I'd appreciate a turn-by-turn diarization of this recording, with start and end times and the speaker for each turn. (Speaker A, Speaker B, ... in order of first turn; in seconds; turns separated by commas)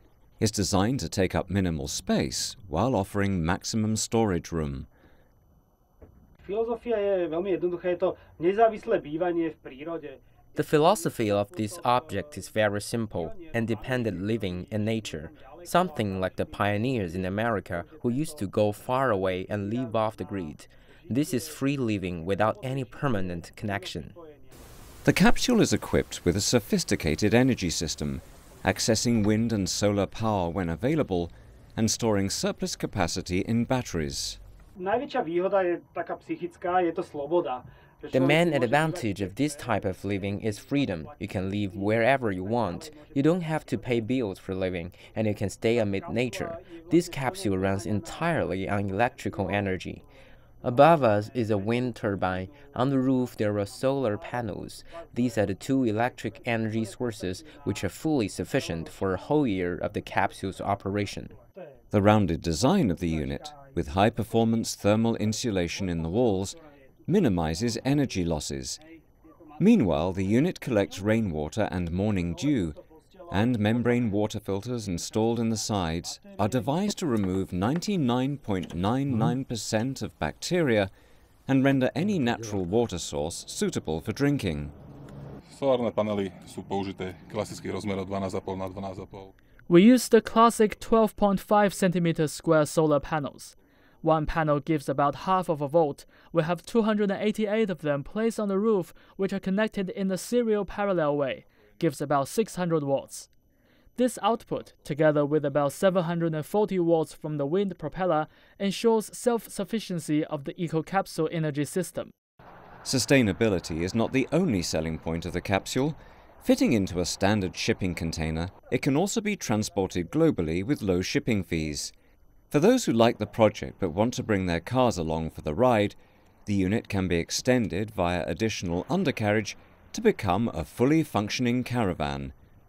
Speaker A: 0.4-4.9, Speaker B: 6.4-10.2, Speaker C: 10.6-24.1, Speaker B: 10.7-12.7, Speaker B: 13.2-24.6, Speaker A: 25.0-34.4, Speaker B: 34.8-44.1, Speaker C: 38.1-50.0, Speaker B: 45.8-49.8, Speaker C: 50.6-61.3, Speaker B: 50.6-52.4, Speaker B: 53.1-60.5, Speaker A: 61.9-68.8, Speaker B: 62.9-68.3, Speaker B: 69.5-71.2, Speaker A: 69.6-72.8, Speaker B: 72.2-74.3, Speaker A: 73.3-80.9, Speaker B: 75.0-76.7, Speaker A: 81.5-84.7, Speaker D: 85.5-89.3, Speaker E: 89.7-103.3, Speaker E: 104.0-112.1, Speaker A: 112.8-121.9, Speaker A: 122.5-132.3